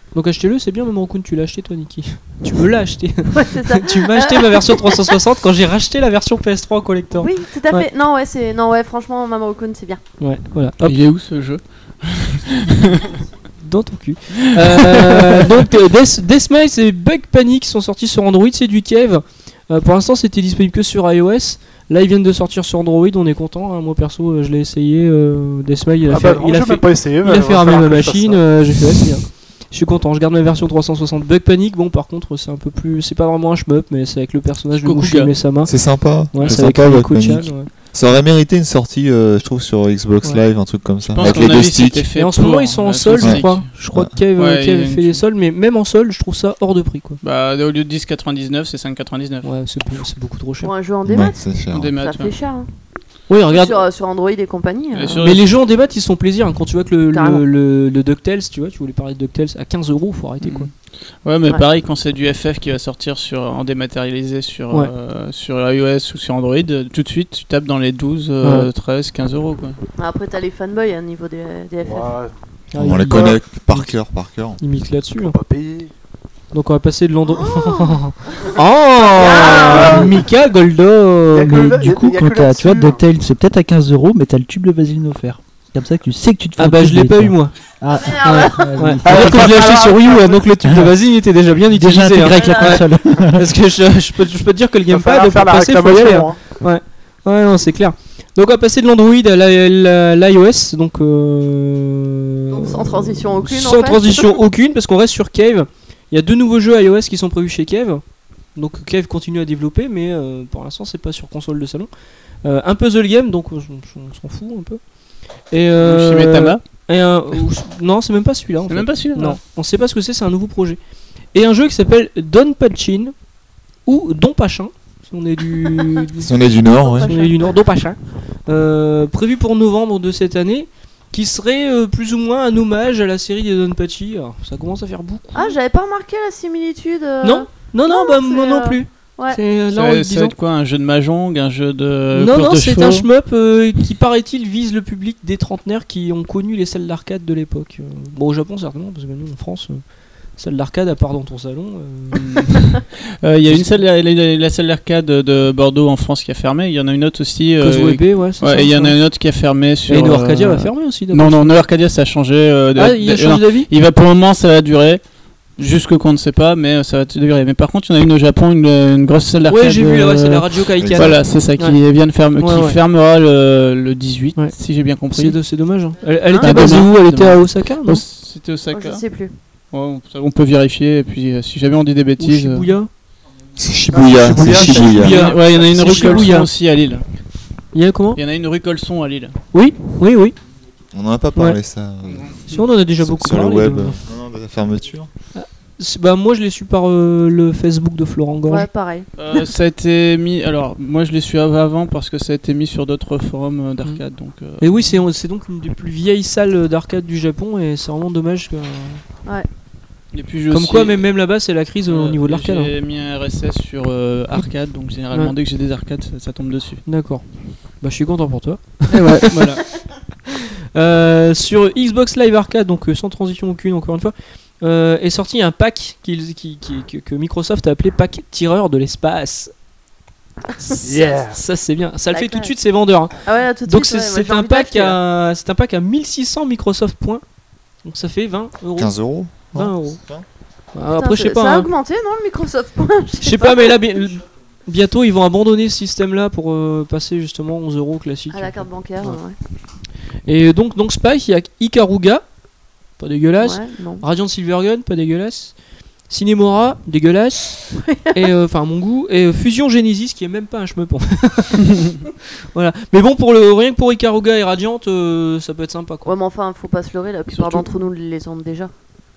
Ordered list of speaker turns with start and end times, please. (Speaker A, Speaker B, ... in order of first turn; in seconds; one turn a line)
Speaker A: 0.1-7.9
Speaker B: 3.4-5.2
Speaker B: 7.2-10.0
Speaker A: 10.2-11.0
Speaker C: 10.8-13.2
Speaker A: 13.6-37.7
Speaker C: 14.6-15.5
Speaker D: 26.1-29.1
Speaker C: 34.7-35.4
Speaker E: 35.6-42.1
Speaker C: 41.1-43.7
Speaker A: 41.2-41.5
Speaker A: 42.1-47.2
Speaker E: 43.2-44.2
Speaker C: 44.4-45.2
Speaker C: 47.2-49.5
Speaker A: 49.4-50.7
Speaker B: 50.6-55.2
Speaker E: 51.0-51.9
Speaker C: 51.7-52.3
Speaker A: 53.3-53.9
Speaker C: 54.9-55.5
Speaker A: 55.2-60.7
Speaker B: 57.1-57.5
Speaker C: 60.4-69.8
Speaker A: 68.4-68.7
Speaker B: 70.0-72.1
Speaker D: 71.8-72.4
Speaker A: 72.7-74.0
Speaker E: 72.8-74.6
Speaker D: 73.1-73.4
Speaker A: 74.6-75.4
Speaker D: 75.2-75.9
Speaker A: 76.5-81.7
Speaker B: 77.3-78.0
Speaker B: 79.1-80.2
Speaker D: 79.6-80.1
Speaker D: 81.3-83.0
Speaker F: 81.4-89.7
Speaker A: 86.6-87.6
Speaker B: 87.9-88.9
Speaker A: 88.2-111.9
Speaker D: 89.0-90.5
Speaker F: 91.7-93.5
Speaker B: 92.2-93.1
Speaker D: 94.9-96.4
Speaker B: 102.5-104.4
Speaker A: 112.4-114.8
Speaker A: 115.5-120.8
Speaker C: 115.8-116.6
Speaker C: 118.7-119.4
Speaker A: 121.3-123.2
Speaker A: 123.8-126.3
Speaker E: 126.2-127.1
Speaker B: 126.6-127.6
Speaker A: 127.0-135.6
Speaker B: 135.3-139.4
Speaker A: 137.2-140.3
Speaker C: 139.7-143.1
Speaker A: 142.1-152.8
Speaker C: 152.2-175.4
Speaker A: 153.5-153.8
Speaker A: 157.6-161.6
Speaker A: 162.8-163.7
Speaker A: 169.5-172.8
Speaker E: 170.8-171.2
Speaker A: 174.3-178.0
Speaker B: 176.3-176.9
Speaker C: 176.4-179.2
Speaker B: 178.7-179.3
Speaker C: 179.7-182.7
Speaker A: 182.2-182.9
Speaker E: 183.6-185.2
Speaker D: 183.9-186.4
Speaker A: 184.3-186.5
Speaker C: 185.0-187.1
Speaker A: 187.7-188.2
Speaker C: 188.2-189.4
Speaker A: 189.5-190.4
Speaker E: 190.9-195.1
Speaker C: 192.1-192.6
Speaker A: 192.5-194.0
Speaker A: 195.3-198.7
Speaker B: 198.5-199.5
Speaker C: 199.2-205.0
Speaker A: 203.8-209.0
Speaker C: 210.1-211.1
Speaker A: 210.5-212.7
Speaker C: 211.9-216.8
Speaker A: 216.9-219.5
Speaker C: 218.9-219.8
Speaker A: 220.7-229.5
Speaker A: 230.6-237.2
Speaker D: 230.8-231.4
Speaker B: 232.1-232.5
Speaker B: 233.2-235.0
Speaker A: 237.8-240.0
Speaker E: 238.8-240.3
Speaker A: 240.7-241.7
Speaker B: 240.9-243.8
Speaker A: 243.2-249.2
Speaker B: 248.3-249.4
Speaker A: 250.2-252.3
Speaker A: 253.0-255.6
Speaker B: 253.4-254.1
Speaker A: 256.1-266.1
Speaker B: 257.8-258.3
Speaker B: 266.0-268.7
Speaker C: 267.3-267.7